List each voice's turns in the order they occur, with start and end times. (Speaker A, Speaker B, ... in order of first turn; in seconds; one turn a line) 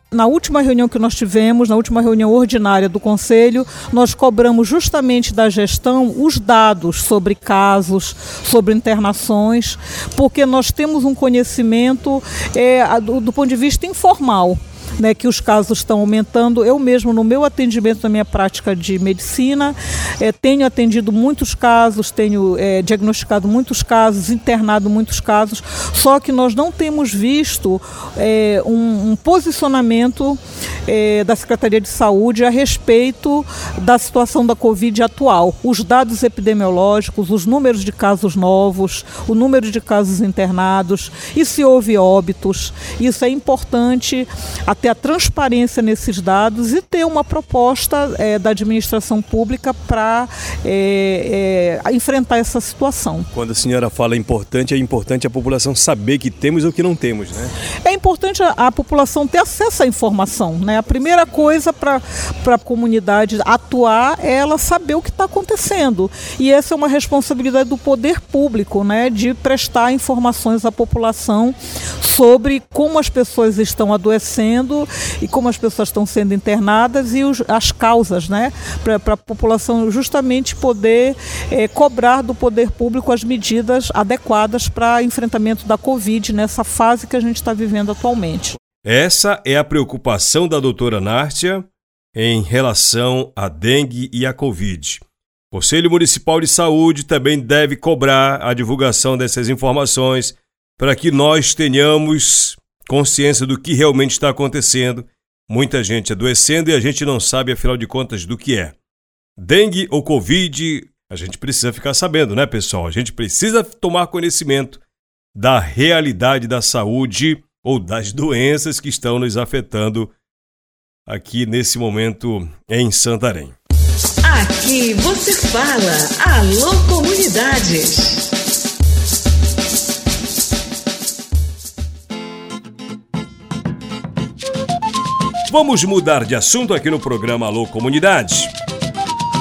Speaker A: 0.1-53.3
Speaker B: 53.3-57.5
Speaker A: 57.8-88.5
Speaker B: 88.8-108.7
Speaker B: 109.4-114.8
Speaker B: 115.3-120.1
Speaker B: 121.1-123.5
Speaker C: 124.2-128.3
Speaker B: 135.5-138.5